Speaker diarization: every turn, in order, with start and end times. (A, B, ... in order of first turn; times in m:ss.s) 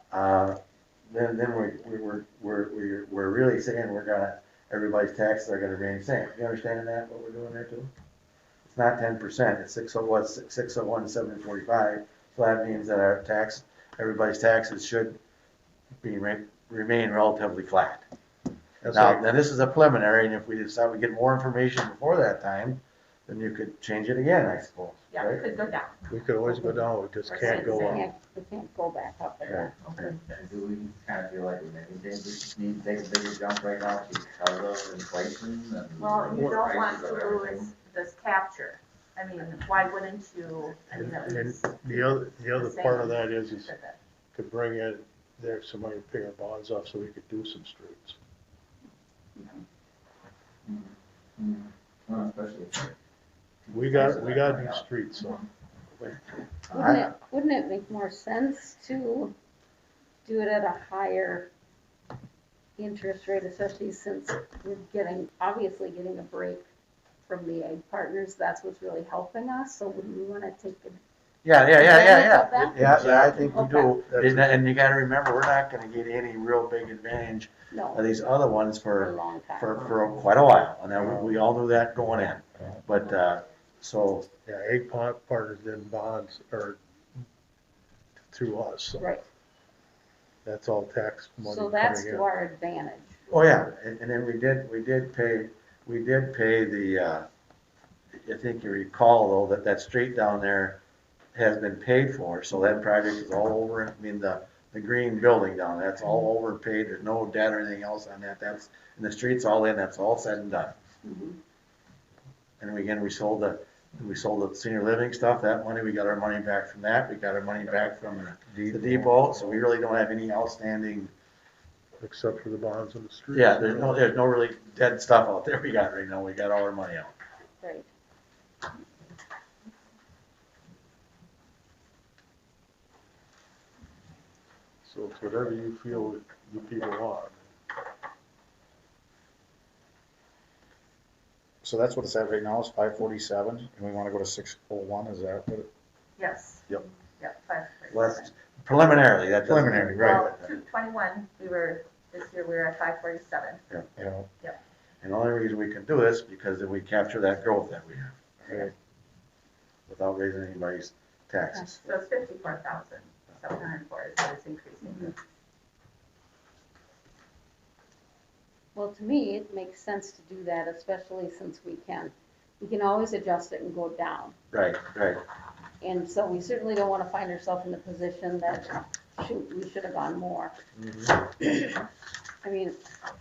0:00.1-0:07.9 A
0:08.6-0:15.2 A
0:16.0-0:18.0 A
0:18.8-0:19.3 B
0:18.9-0:25.4 A
0:25.1-0:26.0 C
0:26.1-0:28.1 B
0:27.3-0:28.1 C
0:27.3-0:29.8 D
0:29.4-0:30.1 A
0:29.8-0:30.2 C
0:30.3-0:37.7 E
0:36.0-0:44.0 C
0:36.3-0:36.6 B
0:40.9-0:43.7 B
0:44.4-0:48.2 B
0:50.7-0:52.9 E
0:53.7-0:54.8 E
0:53.7-0:55.4 B
0:55.2-0:55.4 C
0:56.7-0:57.1 A
0:56.7-0:59.3 D
1:00.2-1:01.5 D
1:02.8-1:06.7 D
1:07.3-1:11.0 D
1:11.4-1:24.3 A
1:11.8-1:12.8 D
1:12.8-1:14.6 B
1:13.4-1:14.0 D
1:17.7-1:18.1 D
1:19.0-1:20.1 D
1:21.0-1:21.4 B
1:24.4-1:26.8 B
1:28.2-1:29.1 B
1:29.0-1:29.2 D
1:30.4-1:32.3 B
1:31.4-1:33.2 D
1:33.3-1:37.3 A
1:38.1-1:40.8 A
1:41.4-1:50.8 A
1:51.0-1:51.4 D
1:52.6-2:01.1 A
1:58.5-1:59.6 F
2:02.0-2:04.0 B
2:03.3-2:07.1 A
2:07.6-2:07.9 D
2:14.8-2:17.5 B
2:21.6-2:25.7 F
2:26.2-2:26.7 C
2:27.2-2:28.3 C
2:27.9-2:30.5 A
2:29.4-2:30.3 F
2:30.0-2:33.6 C
2:34.0-2:34.3 F
2:35.0-2:38.6 A
2:39.9-2:41.8 A
2:41.5-2:41.9 D
2:41.8-2:45.1 C
2:48.8-2:54.4 D
2:54.5-2:55.2 A
2:55.8-3:00.6 D
3:00.8-3:01.2 B
3:01.4-3:01.8 D
3:02.4-3:02.8 D